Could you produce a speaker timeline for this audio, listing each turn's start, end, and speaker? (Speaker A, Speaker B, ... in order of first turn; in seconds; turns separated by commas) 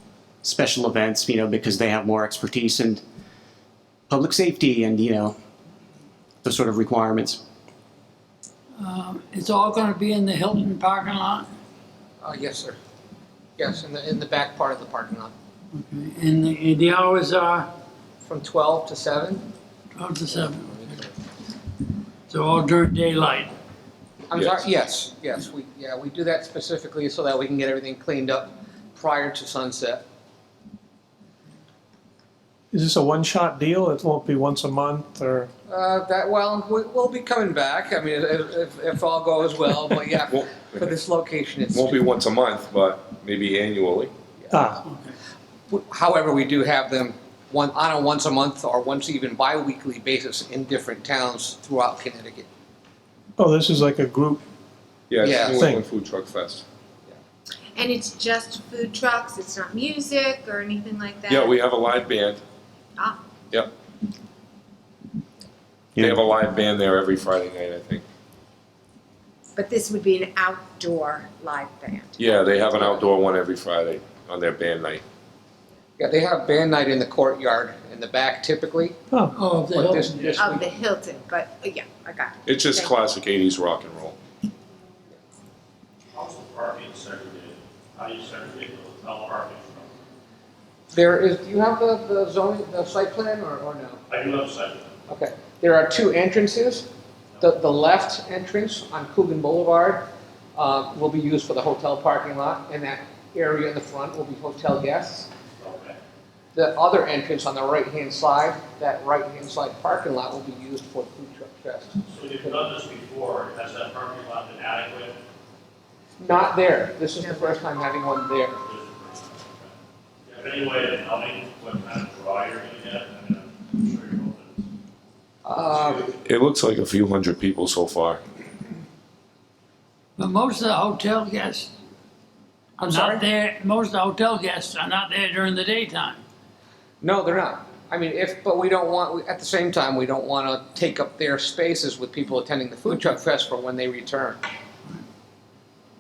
Speaker A: 0.4-3.0, Speaker A: 4.1-5.4, Speaker A: 6.4-7.4, Speaker B: 8.8-11.5, Speaker C: 12.2-12.8, Speaker C: 13.6-15.3, Speaker B: 15.7-17.7, Speaker C: 18.3-19.4, Speaker B: 19.9-20.9, Speaker B: 22.3-23.5, Speaker C: 24.3-30.0, Speaker D: 32.7-35.5, Speaker C: 35.7-42.1, Speaker E: 40.3-40.7, Speaker E: 41.7-44.1, Speaker D: 44.5-44.8, Speaker C: 45.7-52.5, Speaker D: 53.4-54.4, Speaker E: 55.1-56.6, Speaker C: 55.2-55.7, Speaker D: 55.5-55.8, Speaker F: 57.8-61.6, Speaker E: 61.3-62.4, Speaker E: 66.0-68.0, Speaker F: 69.5-73.1, Speaker E: 72.2-75.0, Speaker C: 76.0-79.0, Speaker D: 79.1-79.4, Speaker B: 79.3-80.3, Speaker C: 79.7-80.7, Speaker F: 80.3-82.9, Speaker E: 82.5-84.2, Speaker G: 86.2-89.9, Speaker C: 90.9-94.0, Speaker G: 94.1-94.9, Speaker C: 95.1-96.9, Speaker C: 97.4-105.3, Speaker G: 105.6-106.0, Speaker C: 106.5-112.7, Speaker G: 112.2-115.1, Speaker C: 116.2-118.6, Speaker F: 117.2-117.7, Speaker G: 118.7-119.7, Speaker G: 120.3-124.5, Speaker C: 125.5-126.1, Speaker E: 126.2-128.2, Speaker B: 130.2-131.7, Speaker B: 132.8-136.2, Speaker C: 132.8-133.2, Speaker C: 137.0-144.4